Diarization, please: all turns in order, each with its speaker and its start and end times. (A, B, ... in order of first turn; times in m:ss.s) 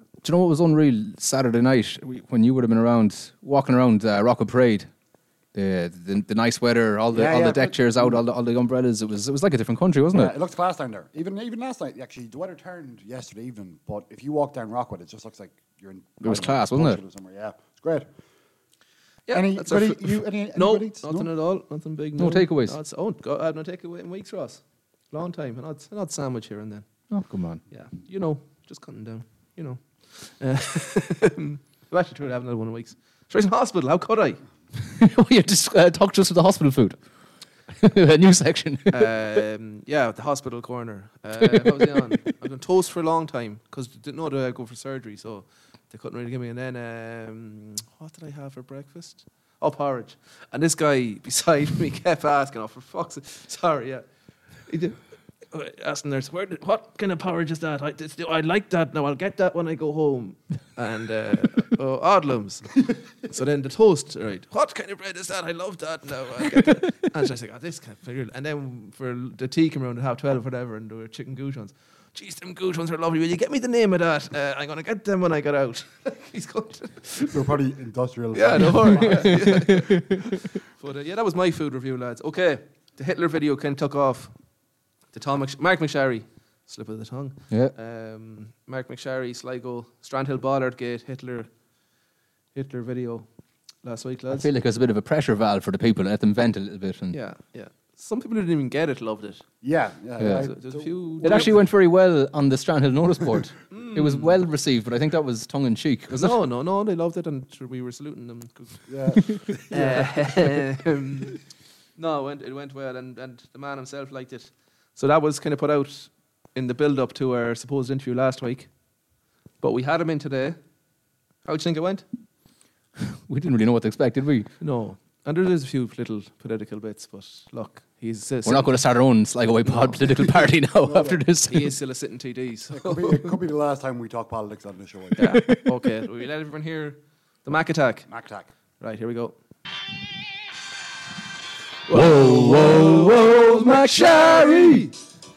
0:00.2-0:04.9 A
0:05.5-0:10.3 A
0:07.1-0:08.2 B
0:10.1-0:18.1 B
0:16.2-0:17.0 A
0:19.3-0:26.8 C
0:19.3-0:21.3 B
0:22.2-0:22.8 A
0:27.1-0:27.6 A
0:27.7-0:34.4 C
0:34.8-0:37.0 A
0:37.8-0:39.2 A
0:38.9-0:54.0 C
0:41.5-0:42.1 A
0:54.7-0:55.0 C
0:55.5-1:17.4 C
1:17.2-1:19.8 B
1:18.3-1:20.2 C
1:18.9-1:19.9 A
1:20.7-1:24.3 C
1:25.1-1:31.5 C
1:32.5-1:33.3 C
1:33.8-1:34.5 C
1:34.3-1:37.2 A
1:37.1-1:39.4 C
1:39.6-1:41.6 B
1:40.2-1:40.5 A
1:40.3-1:41.5 C
1:41.2-1:46.4 A
1:43.7-1:44.3 C
1:46.1-1:48.8 C
1:48.9-1:50.5 B
1:49.7-1:51.4 C
1:52.0-1:58.7 C
1:59.6-2:00.6 C
2:01.4-2:02.0 C
2:03.2-2:04.5 A
2:04.6-2:08.8 C
2:08.4-2:11.7 A
2:10.8-2:11.2 B
2:11.5-2:13.3 C
2:12.7-2:15.4 B
2:15.2-2:18.1 C
2:15.3-2:15.6 A
2:18.1-2:18.5 B
2:18.8-2:19.4 C
2:21.9-2:24.9 C
2:21.9-2:24.9 A